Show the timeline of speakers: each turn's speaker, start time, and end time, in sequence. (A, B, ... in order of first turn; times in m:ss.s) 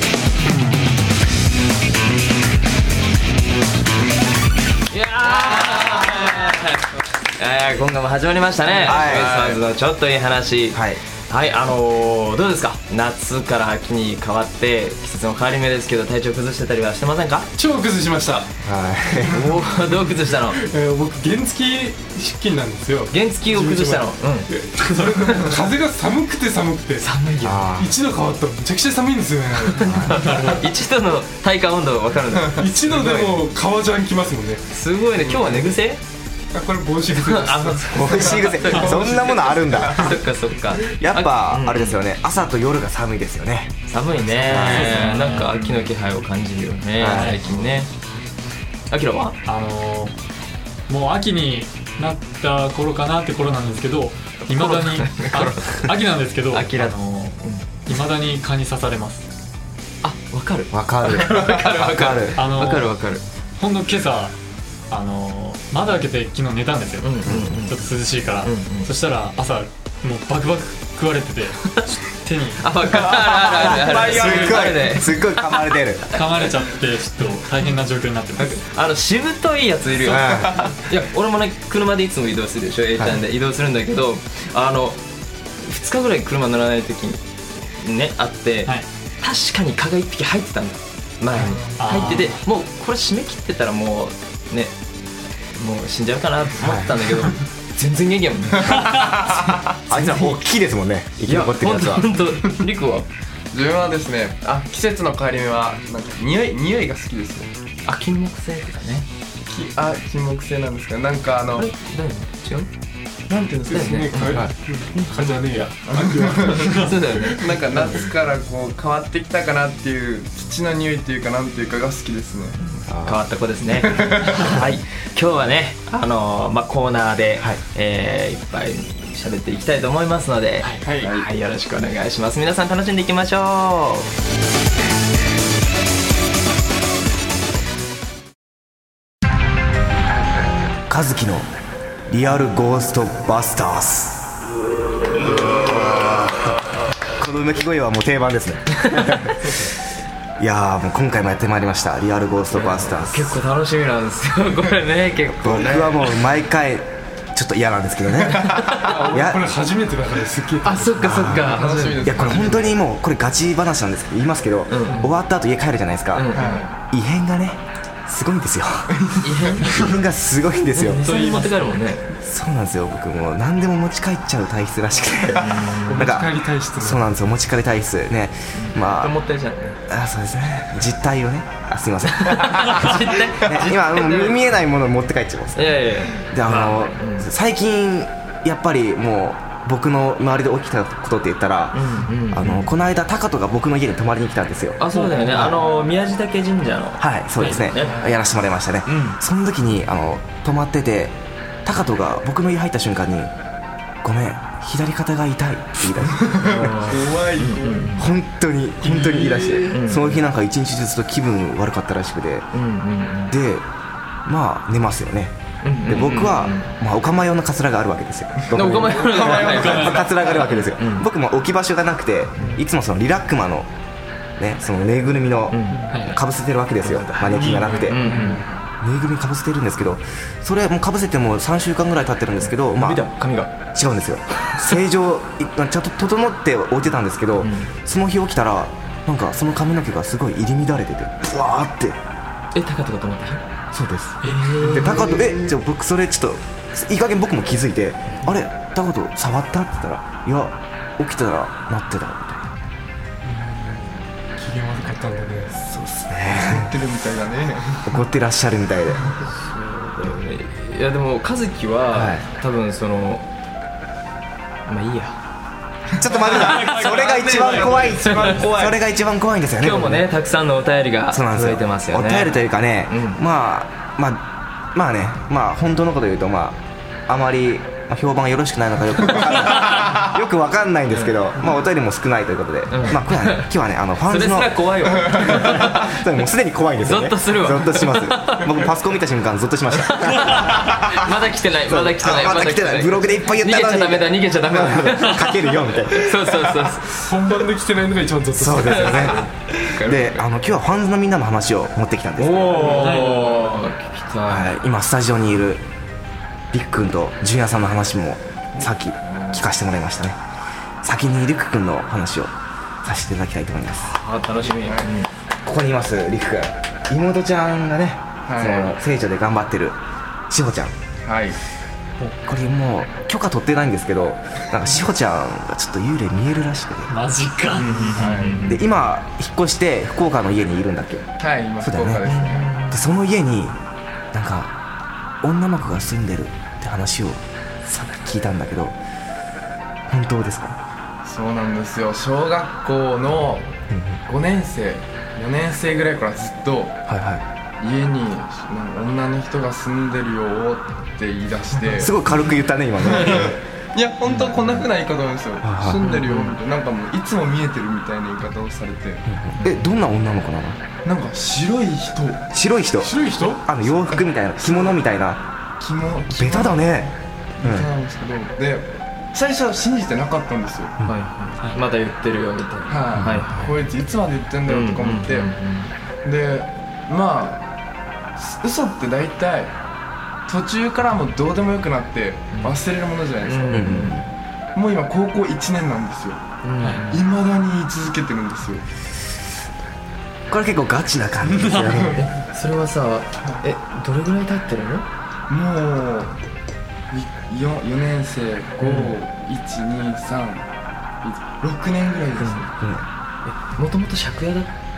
0:00.5-0:00.7 A
0:04.9-0:17.5 B
0:08.8-0:09.6 C
0:08.9-0:09.3 D
0:10.7-0:11.0 D
0:17.6-0:18.6 E
0:18.6-0:19.5 D
0:19.3-0:27.1 E
0:19.3-0:20.6 B
0:23.1-0:24.5 B
0:25.2-0:25.6 B
0:27.0-0:27.7 B
0:27.4-0:28.0 D
0:27.8-0:30.6 E
0:29.7-0:32.7 B
0:29.8-0:30.1 D
0:30.1-0:30.6 A
0:32.5-0:34.7 E
0:34.7-0:36.0 B
0:35.2-0:35.8 C
0:36.5-0:39.4 E
0:37.1-0:42.0 B
0:37.9-0:40.2 D
0:38.0-0:38.5 C
0:40.8-0:43.7 D
0:43.9-0:47.9 B
0:44.2-0:44.7 E
0:44.4-0:45.1 D
0:44.5-0:45.5 A
0:45.4-0:45.9 E
0:47.0-0:47.4 D
0:48.9-0:49.4 B
0:49.4-0:50.2 A
0:50.9-0:59.3 A
0:54.4-0:55.9 B
0:56.5-0:57.9 B
1:00.0-1:03.2 B
1:00.7-1:02.4 D
1:02.4-1:03.0 A
1:03.6-1:04.3 A
1:04.9-1:12.7 A
1:07.0-1:07.9 B
1:07.2-1:07.6 D
1:08.4-1:08.9 B
1:12.6-1:16.4 B
1:13.4-1:16.0 D
1:13.9-1:14.3 C
1:16.1-1:18.6 A
1:18.4-1:25.0 B
1:20.0-1:20.7 D
1:20.1-1:20.8 C
1:23.0-1:23.2 D
1:25.6-1:27.2 B
1:27.8-1:34.7 B
1:31.3-1:32.4 A
1:31.5-1:32.0 C
1:35.5-1:39.1 B
1:36.6-1:37.0 D
1:39.9-1:42.1 D
1:39.9-1:40.4 B
1:41.3-1:43.1 B
1:43.5-1:47.5 C
1:47.8-1:49.1 B
1:49.4-1:51.7 C
1:51.6-1:52.7 B
1:53.3-1:54.3 C
1:53.6-1:57.5 E
1:53.7-1:55.4 B
1:54.2-1:54.5 D
1:55.8-2:02.6 C
1:56.8-1:57.4 B
2:02.6-2:14.1 B
2:02.9-2:03.2 D
2:03.7-2:04.6 C
2:10.8-2:11.3 C
2:20.9-2:21.5 D
2:22.1-2:24.3 D
2:25.1-2:29.5 D
2:28.9-2:29.3 B
2:30.4-2:33.4 D
2:32.5-2:36.1 B
2:35.3-2:39.5 D
2:38.5-2:38.9 B
2:38.8-2:42.2 E
2:40.6-2:42.4 B
2:41.0-2:46.3 D
2:41.3-2:42.8 C
2:44.7-2:45.2 B
2:46.1-2:46.6 B
2:46.3-2:46.7 C
2:46.9-2:48.9 D
2:48.9-2:49.6 C
2:49.2-2:49.6 B
2:49.6-2:51.1 D
2:50.8-2:52.0 B
2:50.9-2:51.7 A
2:52.1-2:59.2 D
2:55.4-2:56.0 B
2:55.8-2:57.1 E
2:58.5-2:59.8 B
2:59.9-3:14.8 D
3:02.2-3:04.4 B
3:05.6-3:07.3 B
3:11.7-3:12.7 B
3:14.8-3:17.0 B
3:14.9-3:15.5 A
3:17.0-3:23.3 D
3:17.4-3:17.6 A
3:17.6-3:18.1 B
3:17.8-3:18.2 C
3:18.8-3:19.2 B
3:24.0-3:26.7 D
3:26.2-3:28.0 C
3:26.5-3:28.0 B
3:28.0-3:32.5 D
3:28.8-3:29.7 C
3:29.7-3:30.2 B
3:32.5-3:33.3 B
3:33.3-3:33.7 D
3:34.2-3:35.4 D
3:35.6-3:36.7 B
3:35.9-3:43.7 D
3:38.5-3:41.1 B
3:38.5-3:40.4 C
3:39.5-3:40.0 A
3:44.4-3:48.1 D
3:45.5-3:46.0 B
3:45.9-3:46.2 A
3:46.8-3:48.4 B
3:47.3-3:48.6 C
3:47.4-3:48.4 E
3:48.8-4:02.0 D
3:52.7-3:53.5 B
3:57.4-3:57.7 B
4:02.5-4:03.4 B
4:03.7-4:12.5 D
4:04.2-4:05.1 B
4:04.4-4:04.9 E
4:13.2-4:15.6 E
4:15.5-4:16.7 D
4:16.3-4:17.9 C
4:17.8-4:19.1 D
4:19.3-4:23.3 B
4:21.9-4:22.3 D
4:24.6-4:25.2 B
4:26.0-4:30.1 D
4:26.0-4:28.5 C
4:26.3-4:27.8 A
4:28.1-4:28.8 B
4:29.6-4:33.2 B
4:31.1-4:51.1 D
4:39.5-4:39.9 B
4:40.9-4:41.2 B
4:42.7-4:43.5 B
4:44.0-4:46.0 B
4:46.8-4:48.4 B
4:49.7-4:55.3 B
4:51.6-4:56.3 D
4:55.9-4:57.1 B
4:57.0-4:59.3 E
4:58.4-5:02.8 D
4:59.8-5:00.2 B
5:02.2-5:04.5 B
5:02.7-5:03.0 C
5:02.8-5:03.3 A
5:04.2-5:05.6 D
5:06.5-5:10.2 D
5:10.8-5:12.3 D
5:12.8-5:13.9 D
5:13.7-5:15.1 B
5:14.4-5:15.0 C
5:15.4-5:19.8 D
5:18.3-5:18.8 C
5:20.3-5:20.7 D
5:21.0-5:21.4 C
5:22.2-5:26.9 D
5:26.9-5:27.8 A
5:27.6-5:28.6 C
5:27.6-5:28.6 B
5:28.5-5:31.1 D
5:31.2-5:32.5 C
5:31.6-5:32.1 D
5:32.0-5:32.9 B
5:32.7-5:33.6 D
5:34.1-5:34.5 D
5:35.2-5:38.8 D
5:39.9-5:40.6 D
5:41.0-5:43.5 C
5:43.7-5:44.0 D
5:44.0-5:46.8 C
5:46.9-5:47.2 D
5:47.6-5:52.0 C
5:51.8-5:53.4 D
5:52.8-5:59.0 C
5:54.0-5:54.5 B
5:55.4-5:55.9 D
5:55.8-5:56.3 B
5:59.0-6:00.6 D
5:59.4-5:59.7 B
6:00.8-6:02.2 C
6:02.3-6:05.2 D
6:02.8-6:03.6 E
6:03.8-6:04.7 C
6:05.6-6:06.8 C
6:06.1-6:07.7 D
6:07.4-6:10.8 C
6:10.8-6:13.6 B
6:12.7-6:15.3 C
6:12.9-6:13.2 D
6:14.4-6:15.7 B
6:16.0-6:17.5 C
6:18.2-6:19.5 C
6:20.3-6:23.8 C
6:23.2-6:24.1 B
6:23.5-6:24.0 D
6:24.5-6:26.2 C
6:26.4-6:27.0 B
6:26.9-6:28.6 C
6:30.3-6:32.0 D
6:31.4-6:31.8 A
6:31.6-6:32.0 C
6:31.9-6:34.9 B
6:35.3-6:36.2 C
6:36.9-6:40.5 C
6:38.6-6:38.9 B
6:41.0-6:42.5 C
6:42.2-6:42.5 B
6:42.6-6:42.8 D
6:43.2-6:44.5 B